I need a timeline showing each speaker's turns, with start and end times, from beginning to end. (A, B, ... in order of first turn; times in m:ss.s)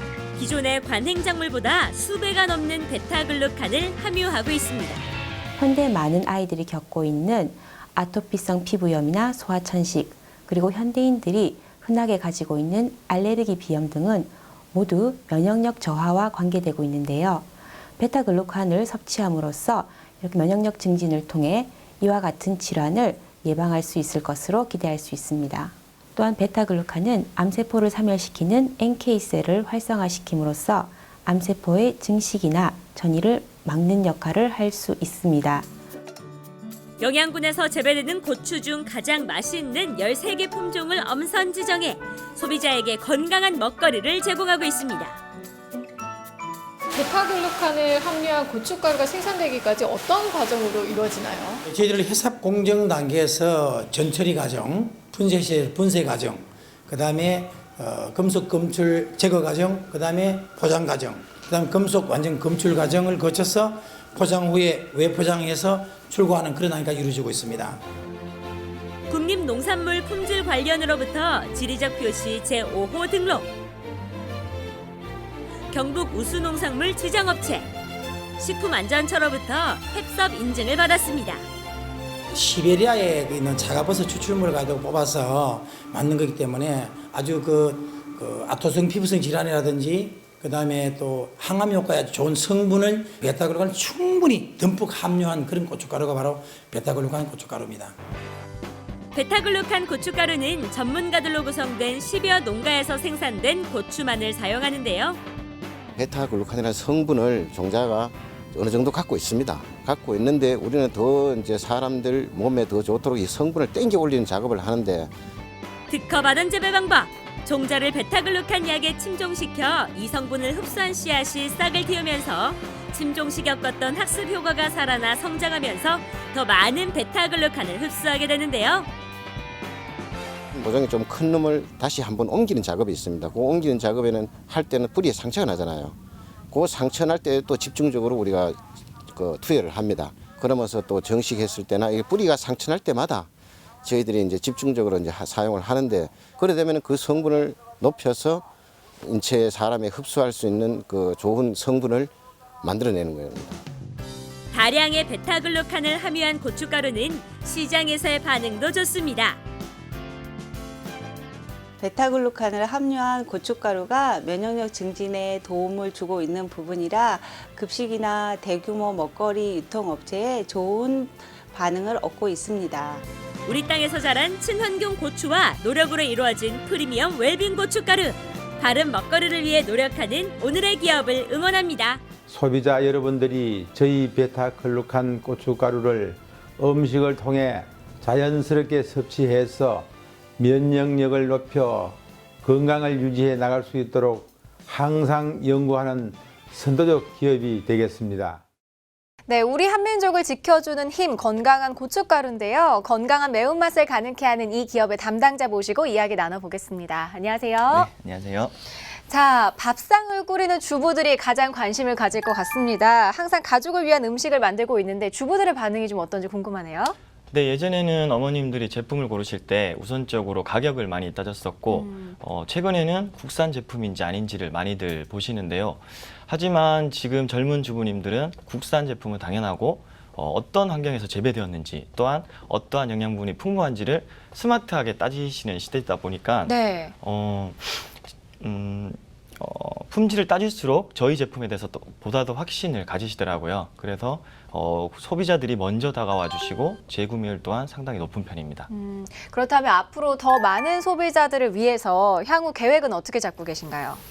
0:00.4-0:05.0 A
0:05.6-0:35.7 B
0:37.0-0:45.2 A
0:46.9-0:51.6 C
0:51.7-1:07.8 D
1:09.1-1:13.5 A
1:15.7-1:17.7 A
1:18.4-1:21.4 A
1:22.3-1:38.0 D
1:39.1-1:45.2 A
1:46.0-1:55.1 E
1:55.9-2:08.9 A
2:10.5-2:16.0 E
2:16.5-2:18.6 E
2:19.1-2:23.3 E
2:23.8-2:28.4 E
2:29.0-2:32.1 E
2:32.6-2:33.6 E
2:34.5-2:39.4 A
2:41.8-2:53.0 F
2:53.5-3:02.0 A
3:02.3-3:18.4 G
3:19.3-3:27.9 H
3:27.7-3:28.5 I
3:29.1-3:37.0 H
3:37.3-4:08.7 I
3:41.7-3:42.2 H
3:56.5-3:56.9 H
4:08.7-4:14.0 H